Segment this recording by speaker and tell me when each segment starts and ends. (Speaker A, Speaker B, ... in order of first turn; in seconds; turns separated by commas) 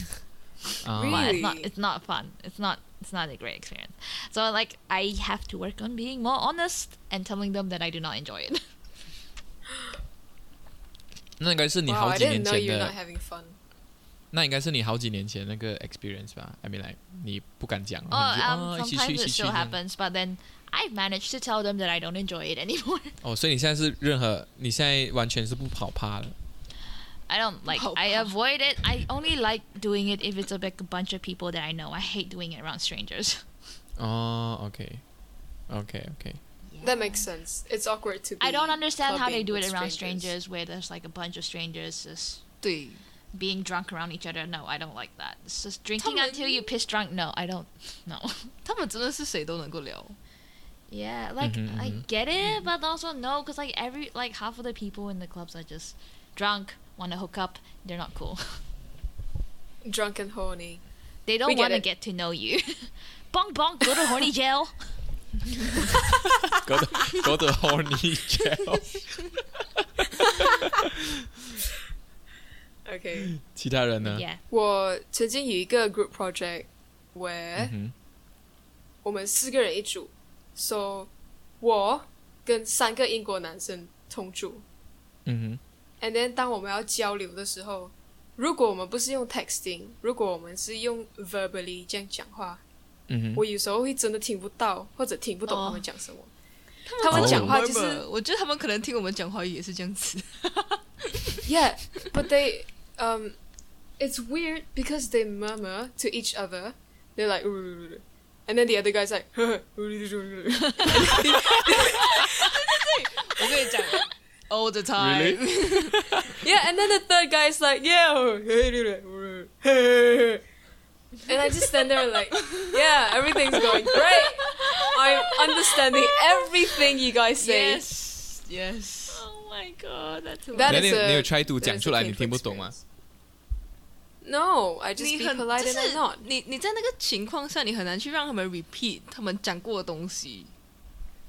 Speaker A: 0.8-1.4, Speaker B: 1.0-1.7, Speaker C: 1.0-8.6, Speaker A: 11.4-12.9, Speaker B: 11.9-13.6, Speaker A: 14.3-19.8, Speaker C: 18.1-23.2, Speaker A: 23.2-26.4, Speaker C: 27.3-33.5, Speaker D: 27.7-28.3, Speaker A: 34.0-35.0, Speaker A: 35.7-36.4, Speaker C: 36.7-37.3, Speaker B: 36.8-40.3, Speaker C: 38.4-42.4, Speaker D: 42.6-43.0, Speaker C: 43.3-48.5, Speaker D: 46.0-46.7, Speaker D: 48.6-50.2, Speaker C: 50.9-58.6, Speaker A: 51.4-52.0, Speaker B: 59.8-60.8, Speaker C: 61.3-64.8, Speaker B: 61.5-61.8, Speaker A: 66.5-69.2, Speaker A: 70.4-70.6, Speaker B: 72.8-73.3, Speaker A: 73.4-74.3, Speaker C: 74.0-74.4, Speaker B: 74.5-77.7, Speaker A: 77.6-77.9, Speaker B: 79.0-84.6, Speaker A: 85.3-85.6, Speaker B: 86.0-92.6, Speaker A: 93.1-93.4, Speaker B: 93.3-96.3, Speaker D: 95.5-95.8, Speaker D: 96.9-101.4, Speaker B: 97.0-98.0, Speaker A: 97.1-97.5, Speaker B: 101.4-103.4, Speaker B: 104.0-112.7, Speaker D: 112.3-116.2, Speaker A: 115.0-116.4, Speaker B: 116.3-120.4, Speaker B: 121.3-127.8, Speaker D: 123.5-124.0, Speaker C: 124.4-125.2, Speaker D: 127.4-129.2, Speaker C: 129.1-130.9, Speaker B: 130.5-132.8, Speaker A: 130.7-132.7, Speaker B: 134.2-136.2, Speaker D: 135.0-140.5